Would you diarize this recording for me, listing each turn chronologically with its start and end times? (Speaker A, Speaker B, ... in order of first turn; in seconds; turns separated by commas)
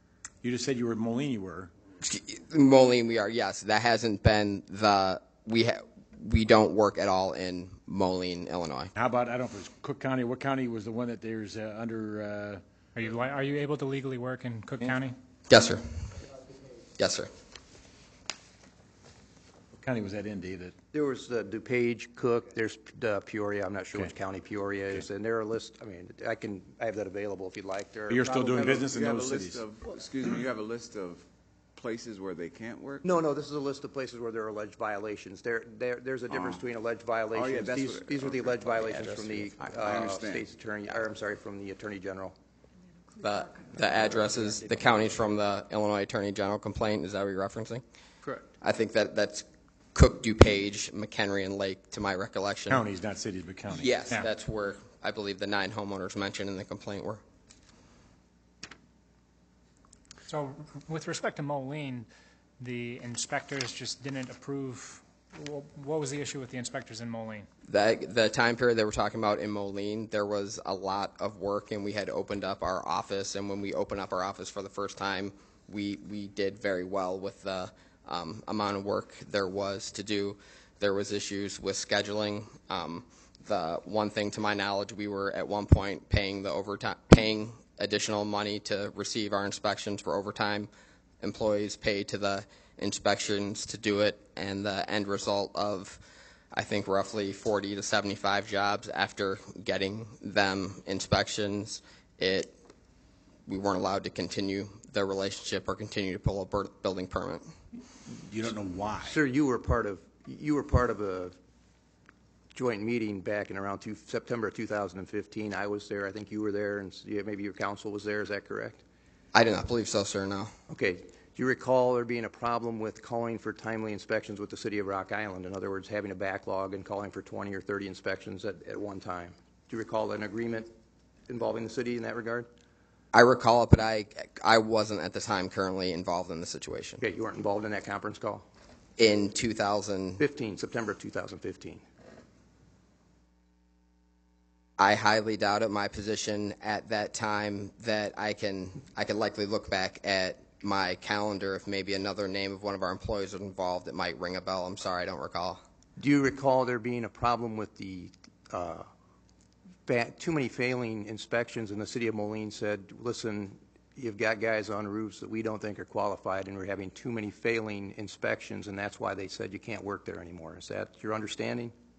Speaker A: 0.4-1.7, Speaker B: 2.0-8.9, Speaker A: 8.9-12.6, Speaker C: 12.9-15.2, Speaker B: 15.5-15.8, Speaker B: 17.0-17.3, Speaker A: 19.8-20.8, Speaker D: 20.9-28.8, Speaker A: 28.1-29.6, Speaker E: 28.3-33.1, Speaker D: 33.0-42.3, Speaker E: 36.3-36.6, Speaker E: 37.3-40.5, Speaker B: 43.2-47.8, Speaker B: 48.6-52.8, Speaker A: 52.7-54.0, Speaker B: 53.7-57.2, Speaker C: 60.3-62.1, Speaker C: 62.6-67.5, Speaker B: 67.7-90.7, Speaker B: 91.2-96.0, Speaker B: 96.5-102.5, Speaker B: 103.5-107.5, Speaker A: 108.2-109.2, Speaker D: 109.0-111.3, Speaker D: 112.5-118.8, Speaker B: 119.3-120.5, Speaker D: 120.7-130.7, Speaker D: 131.3-132.5, Speaker B: 133.1-137.0, Speaker D: 137.0-138.4, Speaker B: 139.0-140.2, Speaker D: 140.2-141.8, Speaker B: 144.8-155.6, Speaker D: 156.0-158.9, Speaker D: 159.8-171.7